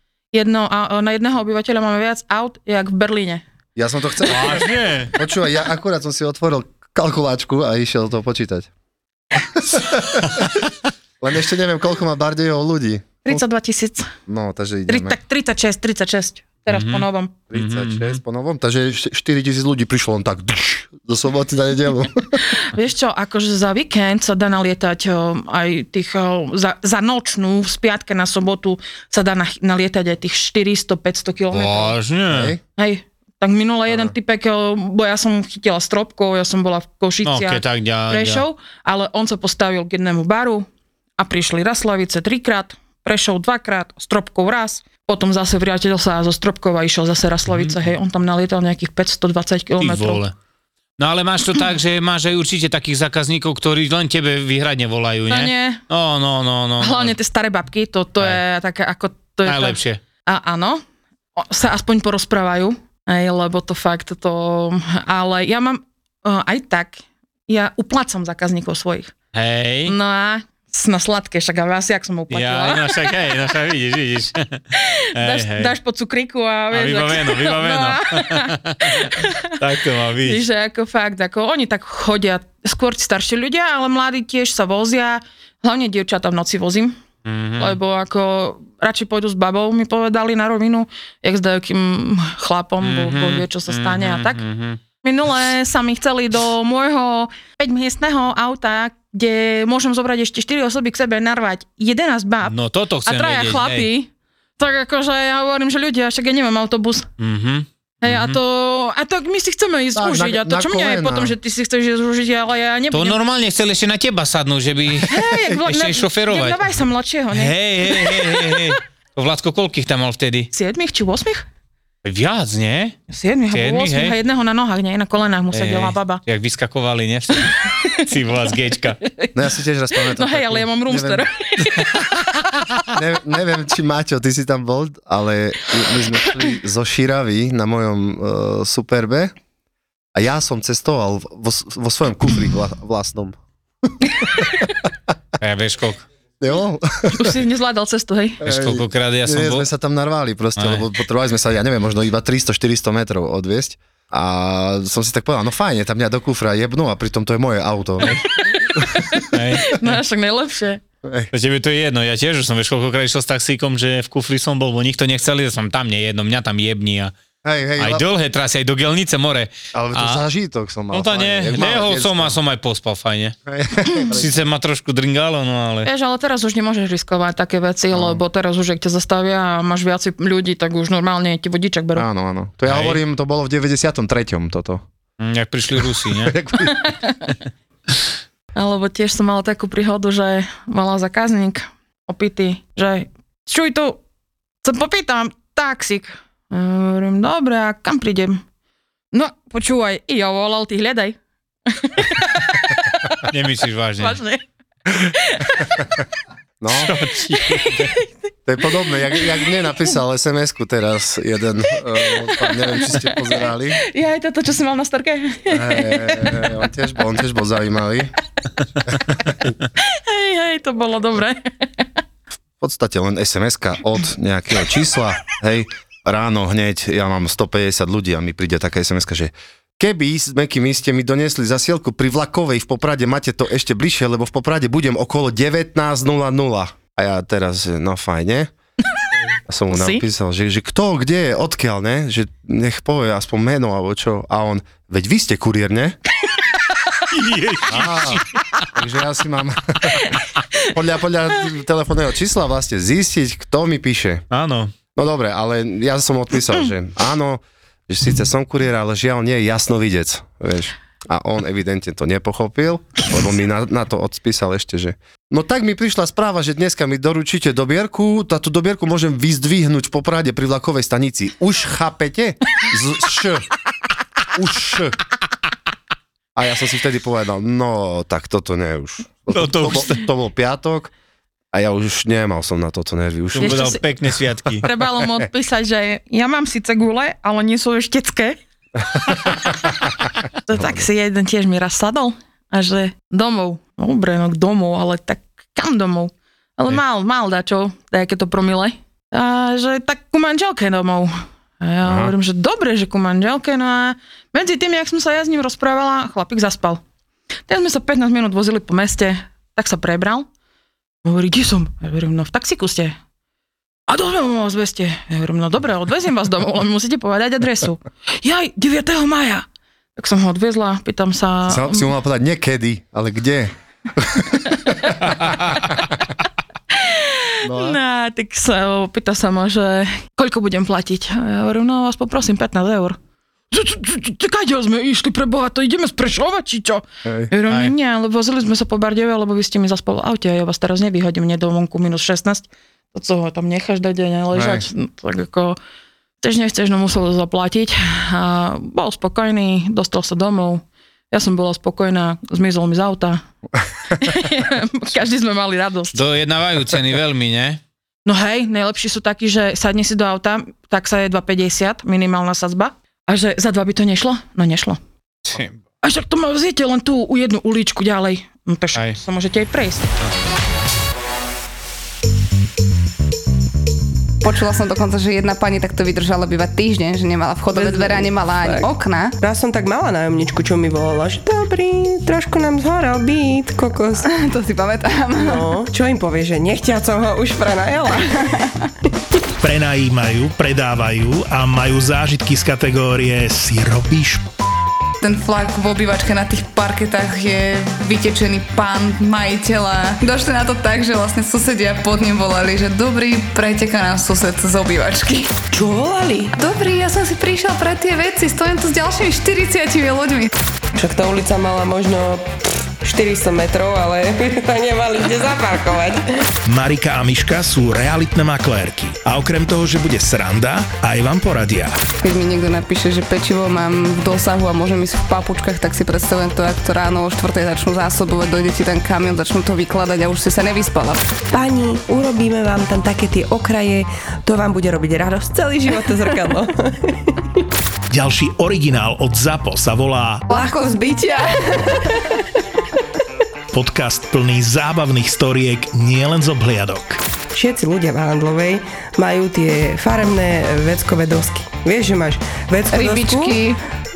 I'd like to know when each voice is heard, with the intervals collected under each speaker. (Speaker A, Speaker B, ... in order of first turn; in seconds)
Speaker A: 0.3-3.4, 13.3-14.1, 14.9-17.3, 22.5-32.0, 32.8-40.7, 41.2-50.2, 55.3-55.8, 56.8-60.8, 61.4-69.1, 69.9-73.2, 74.8-79.6, 80.2-87.0, 87.6-94.4, 95.0-107.1, 108.0-113.2, 115.1-118.7, 120.5-121.4, 123.1-126.2, 127.7-128.1, 129.0-129.3, 130.0-132.2, 147.2-148.4, 158.1-160.8, 175.8-182.1, 186.6-187.4, 188.6-194.0, 194.6-198.4, 199.1-201.2, 201.7-203.3, 204.0-205.9, 207.3-208.1, 208.9-209.5, 211.9-216.5, 219.8-221.8, 239.7-240.0, 283.4-283.8, 284.6-288.4, 289.2-289.5, 290.5-306.8, 307.5-310.3, 311.0-313.0, 313.9-319.4, 320.0-321.9, 324.6-325.8, 326.7-333.0, 333.5-345.6, 346.2-353.2, 353.9-356.0, 358.1-364.8, 365.8-369.9
Speaker B: 3.8-8.7, 9.4-10.6, 11.2-13.4, 14.3-15.2, 17.5-22.4, 32.3-32.6, 110.0-111.3, 129.3-131.3, 132.9-139.3, 140.2-143.4, 144.2-144.5, 146.4-147.4, 148.4-158.2, 158.8-159.0, 161.0-161.3, 167.4-168.1, 169.7-172.4, 173.5-174.3, 177.9-178.2, 182.0-184.8, 186.1-186.8, 206.6-207.0, 208.5-213.8, 215.5-218.2, 222.6-238.5, 239.5-246.0, 247.7-250.0, 250.7-254.2, 254.9-273.5, 274.3-275.0, 276.4-280.9, 281.5-283.8, 301.9-302.1, 321.5-324.9, 327.4-327.8, 337.1-337.3, 344.3-344.6
Speaker C: 4.2-5.1, 16.7-18.2, 31.5-32.6, 37.2-38.5, 47.5-47.8, 49.8-50.3, 51.0-57.2, 59.5-60.0, 69.3-70.0, 72.3-74.6, 75.2-75.8, 76.7-80.5, 87.3-87.8, 92.8-94.8, 102.5-103.9, 107.2-108.4, 112.9-116.7, 117.3-120.5, 122.0-123.0, 123.5-124.2, 125.5-129.0, 145.4-146.1, 148.4-149.7, 150.6-150.9, 159.3-160.0, 161.3-167.1, 167.8-170.2, 170.9-173.4, 174.1-175.9, 182.7-183.0, 185.2-186.4, 203.2-204.2, 206.7-207.9, 247.1-248.3, 254.3-254.7, 279.3-280.0, 283.3-284.7, 337.5-337.8, 355.9-357.6, 365.2-365.6
Speaker D: 374.2-379.2, 384.0-385.5, 395.0-405.4, 406.4-410.3, 422.0-431.2, 440.3-442.2, 452.7-453.6
Speaker E: 377.5-384.1, 385.2-388.2, 405.5-406.4, 410.8-416.0, 431.3-437.2, 440.3-440.7, 447.3-453.4
Speaker F: 389.4-394.3, 416.5-421.9, 437.9-440.3, 443.5-447.0